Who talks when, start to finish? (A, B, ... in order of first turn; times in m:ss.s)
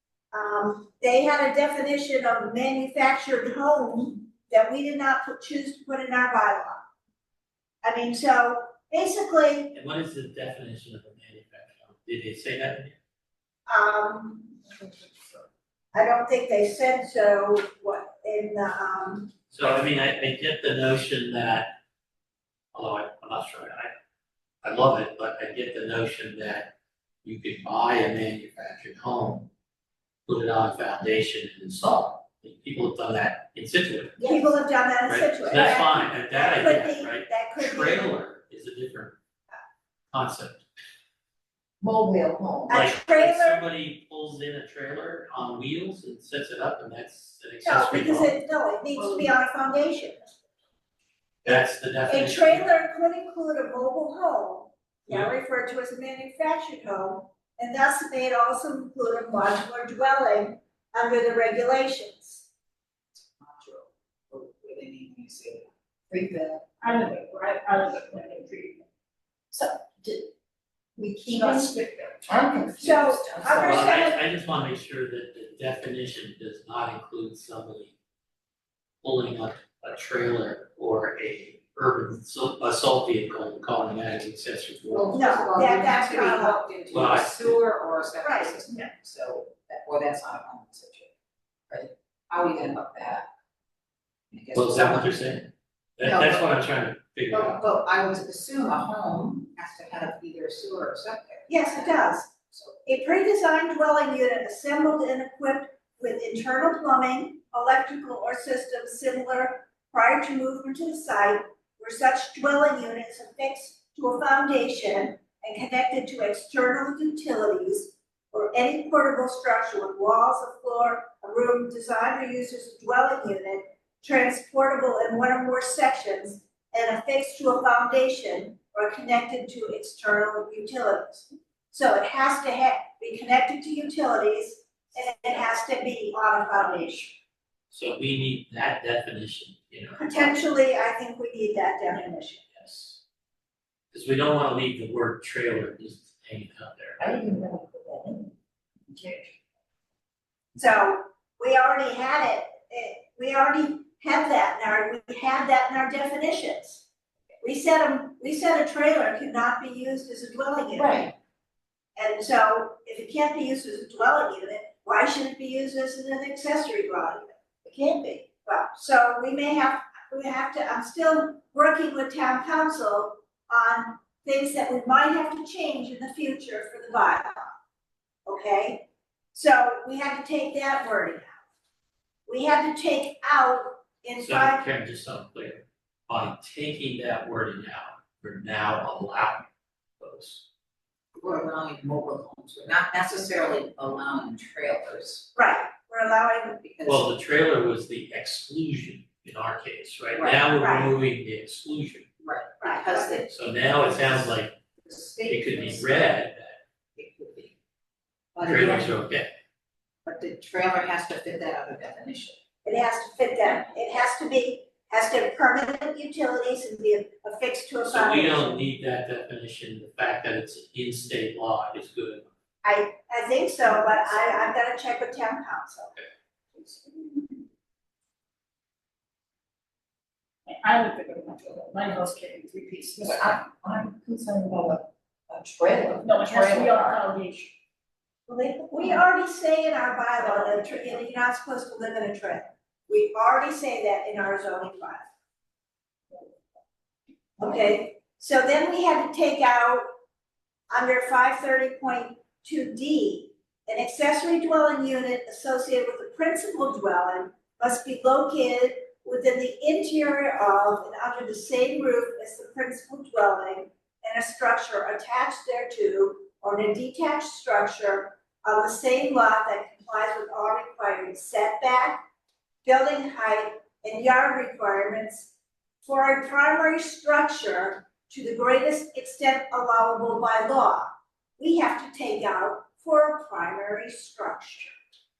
0:00.3-0:06.8 A
0:07.8-0:09.7 A
0:09.7-0:13.0 B
0:13.7-0:14.7 A
0:15.9-0:19.3 A
0:19.5-0:21.7 B
0:22.7-0:23.9 B
0:24.6-0:26.7 B
0:27.2-0:29.5 B
0:30.3-0:34.2 B
0:34.2-0:34.5 C
0:34.2-0:38.1 A
0:35.0-0:39.2 B
0:40.1-0:40.6 B
0:41.8-0:42.8 C
0:42.7-0:43.6 A
0:42.7-0:48.4 B
0:47.6-0:50.3 A
0:49.0-0:49.3 C
0:51.4-0:52.7 B
0:51.5-1:02.4 A
0:55.1-0:55.3 B
1:03.4-1:05.7 D
1:06.1-1:06.6 C
1:06.8-1:08.8 E
1:09.5-1:10.3 C
1:11.0-1:13.9 C
1:11.4-1:11.9 E
1:12.8-1:14.2 A
1:13.5-1:17.9 B
1:19.0-1:25.3 B
1:24.9-1:31.1 D
1:25.1-1:26.6 A
1:26.9-1:27.6 B
1:28.2-1:28.6 A
1:31.7-1:33.3 D
1:34.3-1:35.1 D
1:34.5-1:37.6 B
1:36.0-1:36.5 D
1:37.3-1:42.8 D
1:41.5-1:42.3 A
1:42.8-2:17.2 A
2:17.7-2:20.4 B
2:20.0-2:22.4 A
2:22.5-2:23.0 B
2:23.9-2:27.0 B
2:27.0-2:28.3 C
2:28.9-2:29.3 C
2:30.6-2:36.8 A
2:37.4-2:41.1 A
2:40.8-2:41.1 C
2:42.0-2:47.4 A
2:47.6-2:48.2 C
2:48.2-2:57.5 A
2:58.2-3:01.4 A
3:02.3-3:04.7 A
3:04.2-3:09.5 B
3:10.0-3:10.4 B
3:11.2-3:15.2 D
3:15.3-3:16.6 A
3:16.6-3:17.1 D
3:16.8-3:22.1 B
3:20.1-3:20.5 D
3:20.6-3:20.9 A
3:22.2-3:23.3 D
3:22.6-3:23.2 A
3:23.2-3:24.5 B
3:24.8-3:26.0 D
3:25.3-3:26.6 B
3:27.0-3:27.5 D
3:28.3-3:28.9 D
3:28.4-3:29.3 B
3:30.0-3:32.4 D
3:32.6-3:38.6 A
3:37.9-3:42.3 B
3:42.6-3:45.9 A
3:50.5-3:53.1 E
3:52.9-3:57.0 C
3:56.0-3:57.5 E
3:58.3-4:05.1 A
3:58.7-3:59.0 C
4:07.4-4:09.9 A
4:10.7-4:32.0 A
4:32.6-4:35.3 A
4:35.8-4:44.8 A